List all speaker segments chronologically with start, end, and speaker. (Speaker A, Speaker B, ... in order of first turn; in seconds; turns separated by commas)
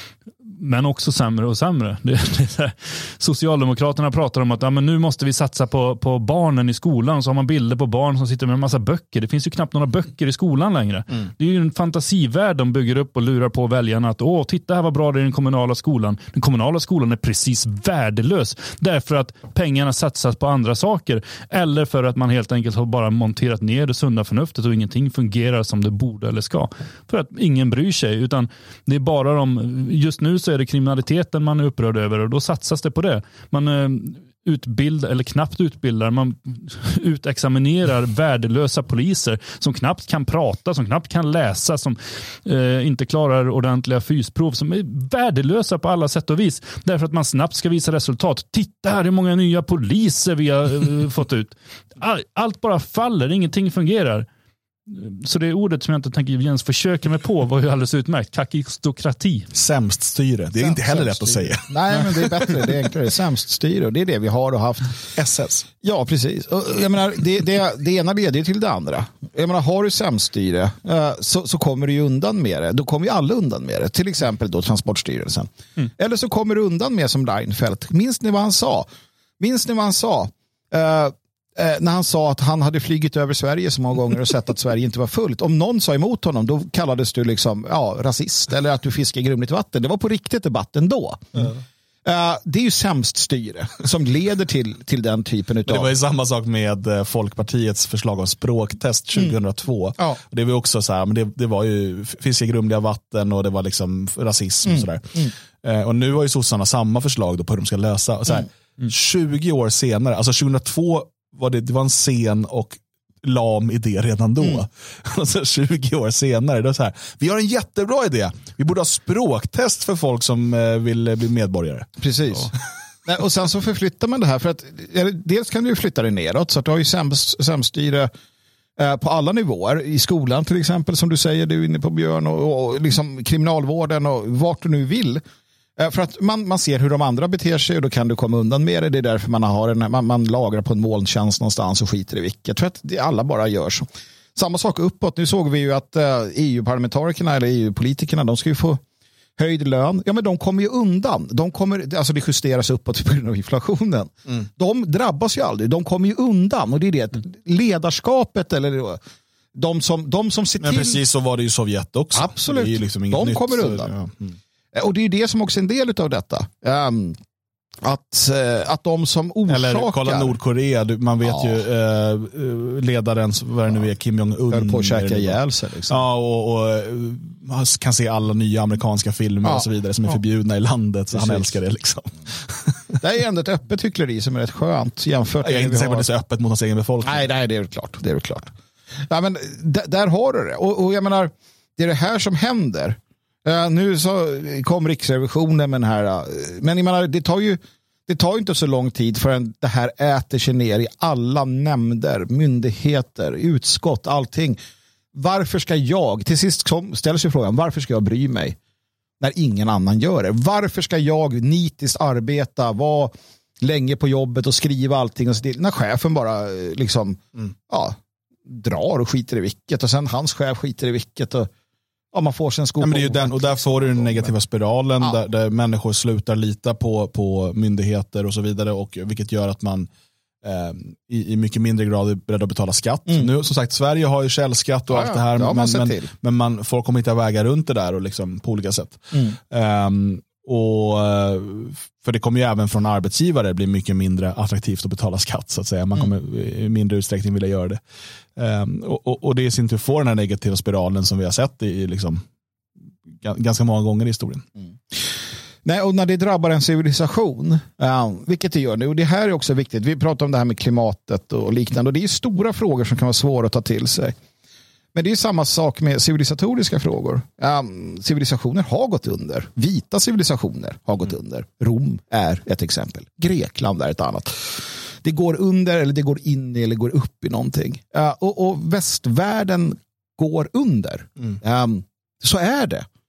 Speaker A: 0.5-54.3, Speaker A: 54.9-59.5, Speaker B: 59.5-62.8, Speaker C: 60.6-65.1, Speaker B: 65.1-65.7, Speaker C: 65.8-78.9, Speaker C: 79.4-95.9, Speaker B: 95.7-121.9, Speaker C: 104.7-105.3, Speaker C: 122.0-122.5, Speaker C: 123.0-128.1, Speaker C: 128.8-135.2, Speaker C: 135.8-148.8, Speaker C: 149.4-159.0, Speaker C: 159.5-161.0, Speaker B: 160.6-164.4, Speaker C: 162.1-163.9, Speaker C: 164.7-167.2, Speaker C: 167.8-170.4, Speaker B: 169.5-175.4, Speaker C: 171.2-171.6, Speaker C: 174.5-176.0, Speaker B: 175.9-183.0, Speaker C: 181.1-181.6, Speaker C: 183.0-186.1, Speaker B: 185.4-187.3, Speaker C: 187.0-188.5, Speaker C: 189.0-204.6, Speaker C: 205.1-208.6, Speaker C: 209.2-221.5, Speaker C: 222.1-224.3, Speaker B: 222.8-229.9, Speaker B: 230.4-247.8, Speaker C: 234.9-236.1, Speaker B: 248.3-252.2, Speaker B: 253.1-254.4, Speaker C: 255.6-264.1, Speaker C: 264.9-282.8